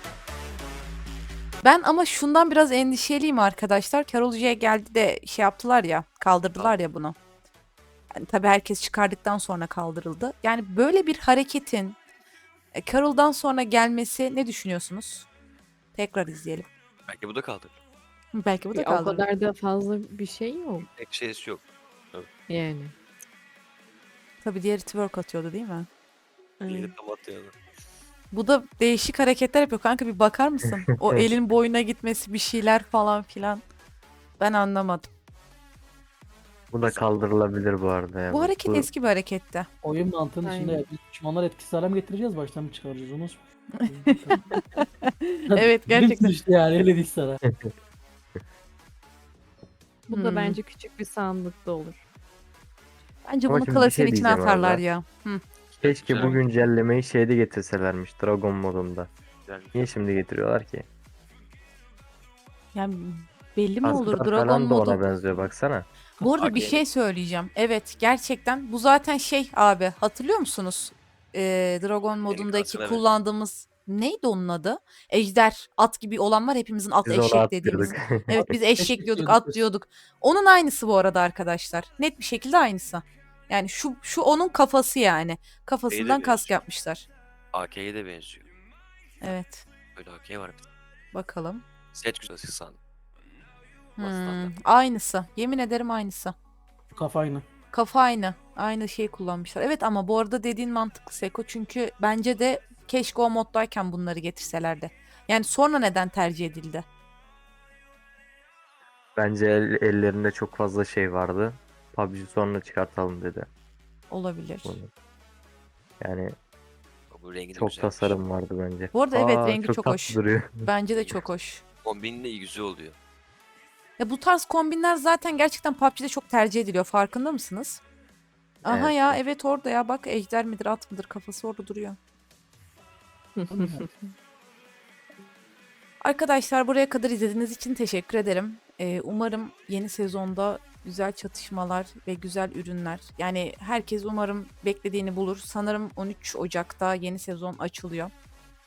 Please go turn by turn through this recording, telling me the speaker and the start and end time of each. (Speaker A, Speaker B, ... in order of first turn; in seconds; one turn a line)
Speaker A: 1.6-7.2
Speaker A: 8.1-12.0
Speaker A: 12.8-15.3
Speaker A: 15.9-16.7
Speaker B: 17.1-17.8
Speaker A: 18.3-19.2
Speaker C: 18.7-20.9
Speaker B: 20.9-22.3
Speaker C: 22.5-22.9
Speaker A: 24.4-25.9
Speaker C: 26.6-26.9
Speaker B: 26.7-27.5
Speaker A: 28.3-33.6
Speaker A: 34.4-35.1
Speaker D: 36.7-38.9
Speaker B: 36.8-37.3
Speaker A: 38.3-39.7
Speaker E: 39.8-44.8
Speaker C: 40.4-40.8
Speaker A: 43.8-46.3
Speaker E: 45.5-47.4
Speaker C: 50.1-52.0
Speaker A: 50.1-50.6
Speaker A: 53.2-55.4
Speaker D: 53.5-54.8
Speaker B: 55.7-56.5
Speaker D: 55.8-59.1
Speaker B: 59.5-60.0
Speaker D: 59.7-60.9
Speaker A: 62.7-65.0
Speaker D: 63.8-65.9
Speaker A: 66.2-87.0
Speaker B: 66.4-66.8
Speaker B: 72.3-73.1
Speaker D: 77.0-78.5
Speaker E: 78.4-79.7
Speaker B: 85.9-86.5
Speaker B: 87.5-88.5
Speaker A: 89.2-89.7
Speaker B: 90.0-90.7
Speaker A: 91.1-91.6
Speaker B: 91.9-92.8
Speaker A: 94.0-96.3
Speaker B: 94.0-94.5
Speaker E: 96.9-97.5
Speaker A: 97.7-106.9
Speaker D: 109.2-113.5
Speaker A: 114.1-114.8
Speaker D: 114.7-114.9
Speaker D: 116.0-116.3
Speaker B: 117.1-118.2
Speaker D: 117.5-120.7
Speaker A: 118.9-121.6
Speaker B: 121.8-123.0
Speaker A: 124.0-127.8
Speaker A: 128.6-132.0
Speaker D: 128.7-129.2
Speaker C: 133.4-134.1
Speaker E: 133.5-133.9
Speaker A: 136.0-148.1